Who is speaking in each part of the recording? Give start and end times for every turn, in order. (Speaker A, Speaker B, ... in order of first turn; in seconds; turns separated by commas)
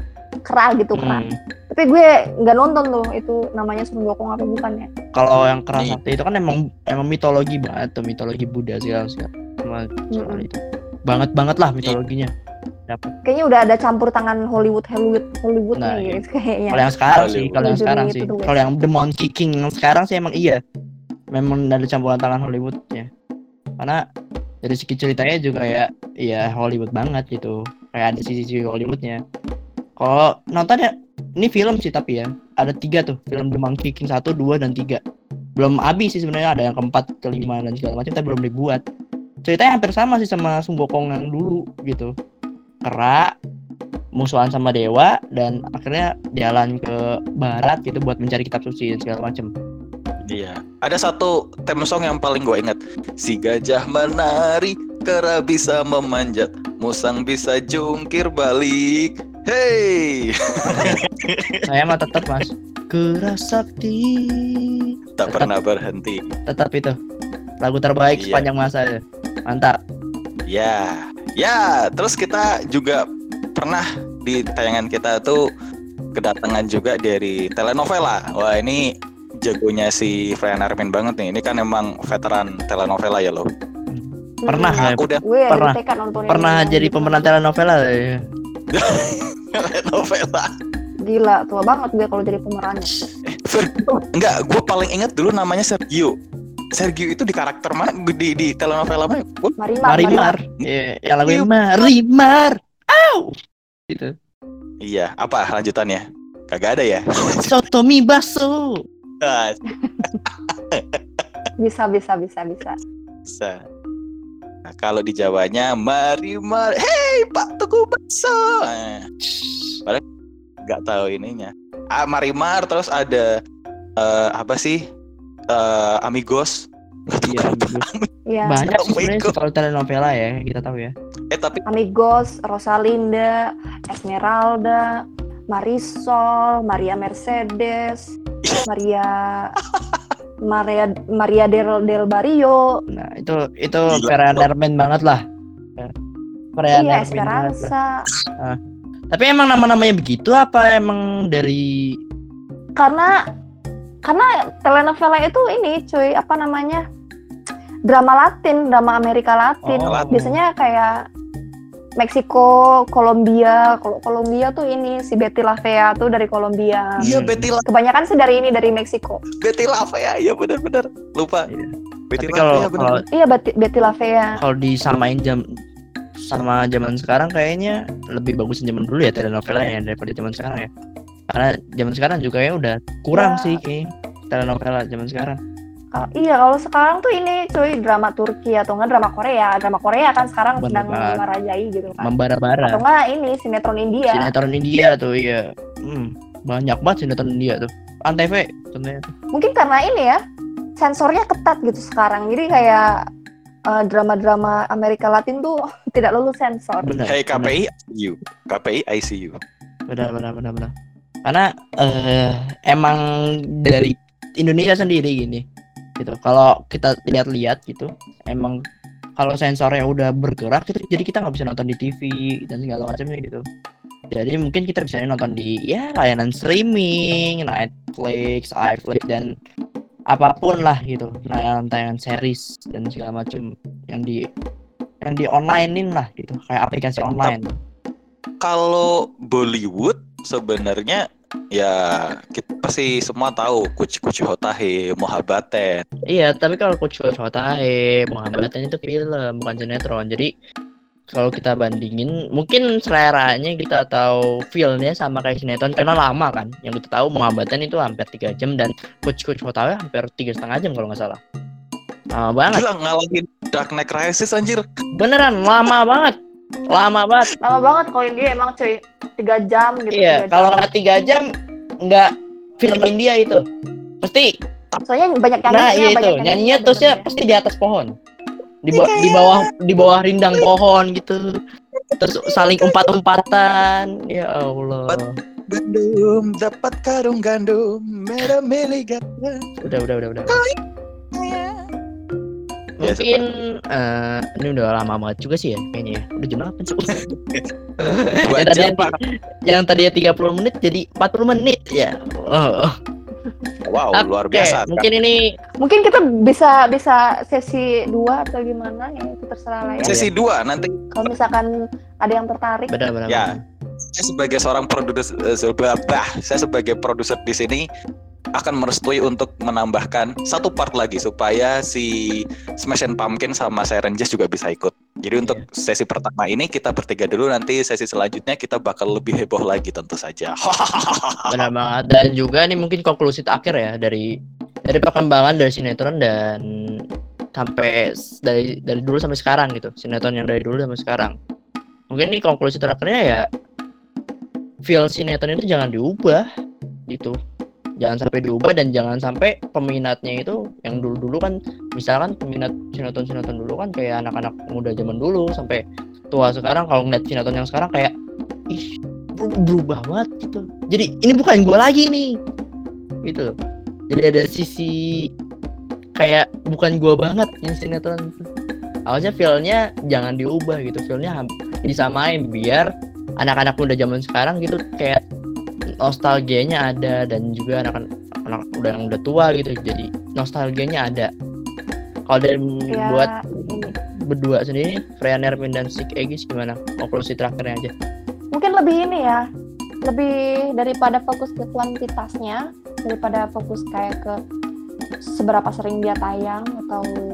Speaker A: 0.5-4.9, Speaker B: 0.9-1.4, Speaker B: 5.1-12.3, Speaker A: 10.1-10.4, Speaker B: 12.9-13.1, Speaker A: 13.2-16.8, Speaker B: 15.8-20.6, Speaker C: 17.2-17.7, Speaker A: 17.6-18.7, Speaker B: 21.3-23.1, Speaker B: 24.6-29.2, Speaker B: 30.0-35.0, Speaker B: 35.6-38.8, Speaker B: 39.4-42.1, Speaker B: 42.8-43.3, Speaker B: 44.1-49.5, Speaker C: 50.2-61.6, Speaker B: 61.7-64.6, Speaker C: 65.2-66.2, Speaker B: 65.3-65.5, Speaker B: 66.5-66.9, Speaker B: 67.6-69.8, Speaker C: 68.2-68.5, Speaker C: 70.5-73.0, Speaker C: 73.5-75.4, Speaker C: 76.2-78.8, Speaker C: 79.4-83.4, Speaker B: 83.9-85.8, Speaker A: 84.4-87.3, Speaker C: 84.8-85.2, Speaker B: 86.3-88.2, Speaker C: 88.7-90.5, Speaker A: 91.0-93.1, Speaker C: 93.3-96.1, Speaker C: 96.8-99.6, Speaker A: 99.6-100.4, Speaker B: 99.9-103.3, Speaker C: 101.3-101.9, Speaker C: 104.8-107.5, Speaker B: 107.4-108.6, Speaker C: 109.2-109.6, Speaker A: 109.8-110.2, Speaker C: 110.5-111.2, Speaker A: 111.6-112.8, Speaker C: 113.3-113.6, Speaker C: 114.7-119.0, Speaker B: 119.3-119.8, Speaker C: 120.6-123.3, Speaker C: 124.0-124.8, Speaker C: 125.5-128.1, Speaker B: 127.3-127.9, Speaker A: 128.3-128.6, Speaker B: 128.5-130.9, Speaker C: 128.7-129.3, Speaker C: 131.3-131.6, Speaker A: 131.7-134.9, Speaker A: 135.5-138.1, Speaker A: 138.7-139.5, Speaker C: 139.7-140.1, Speaker A: 140.4-142.7, Speaker B: 142.9-145.2, Speaker C: 143.9-144.5, Speaker B: 146.6-147.7, Speaker A: 146.7-147.9, Speaker B: 149.1-151.6, Speaker A: 152.8-153.1, Speaker A: 154.1-156.8, Speaker A: 157.9-160.9, Speaker B: 159.6-160.4, Speaker A: 162.0-167.1, Speaker B: 167.0-167.5, Speaker C: 167.0-167.6, Speaker A: 167.7-169.2, Speaker C: 169.4-171.5, Speaker B: 171.5-173.0, Speaker C: 172.1-173.0, Speaker A: 173.1-174.4, Speaker B: 174.4-175.4, Speaker B: 176.2-180.7, Speaker B: 181.3-185.4, Speaker A: 183.1-183.6, Speaker A: 185.9-192.1, Speaker B: 190.6-191.2, Speaker B: 192.0-192.8, Speaker A: 192.6-194.3, Speaker B: 194.1-199.1, Speaker A: 199.3-200.2, Speaker A: 200.8-202.9, Speaker A: 203.7-206.9, Speaker B: 206.8-207.6, Speaker C: 207.1-209.4, Speaker B: 209.9-210.7, Speaker B: 211.2-213.0, Speaker B: 213.6-215.4, Speaker B: 216.0-218.6, Speaker B: 219.2-223.4, Speaker B: 224.1-229.3, Speaker B: 230.1-234.2, Speaker B: 235.0-237.5, Speaker C: 238.4-241.0, Speaker C: 241.5-245.8, Speaker B: 246.1-250.3, Speaker B: 251.1-261.2, Speaker B: 262.1-262.6, Speaker C: 262.5-264.6, Speaker B: 264.9-266.1, Speaker B: 266.7-267.3, Speaker A: 267.4-270.6, Speaker B: 269.9-271.2, Speaker B: 271.8-273.4, Speaker B: 274.0-274.3, Speaker A: 274.9-277.1, Speaker B: 275.5-277.9, Speaker B: 278.6-281.2, Speaker C: 278.7-279.4, Speaker C: 281.8-282.8, Speaker B: 282.0-285.1, Speaker C: 285.5-289.4, Speaker B: 289.6-290.4, Speaker C: 291.1-291.6, Speaker B: 292.8-297.0, Speaker C: 292.8-293.2, Speaker C: 296.9-297.4, Speaker B: 297.8-302.7, Speaker C: 298.3-298.9, Speaker C: 303.7-304.8, Speaker B: 304.0-305.2, Speaker A: 305.6-309.9, Speaker C: 309.8-311.1, Speaker B: 309.8-310.1, Speaker A: 310.9-311.5, Speaker A: 312.0-312.7, Speaker B: 312.7-313.4, Speaker C: 313.9-317.6, Speaker C: 318.4-321.9, Speaker C: 322.6-331.4, Speaker B: 331.3-334.0, Speaker B: 334.7-336.4, Speaker B: 337.4-341.1, Speaker B: 341.9-343.2, Speaker B: 344.6-346.2, Speaker B: 346.9-347.1, Speaker B: 347.8-357.9, Speaker B: 358.5-362.1, Speaker B: 363.1-363.3, Speaker B: 363.9-364.8, Speaker B: 366.0-368.2, Speaker B: 368.9-372.7, Speaker B: 373.2-375.0, Speaker B: 375.8-381.1, Speaker B: 382.1-387.7, Speaker A: 382.7-383.7, Speaker A: 388.3-389.2, Speaker A: 389.8-394.1, Speaker A: 395.1-396.9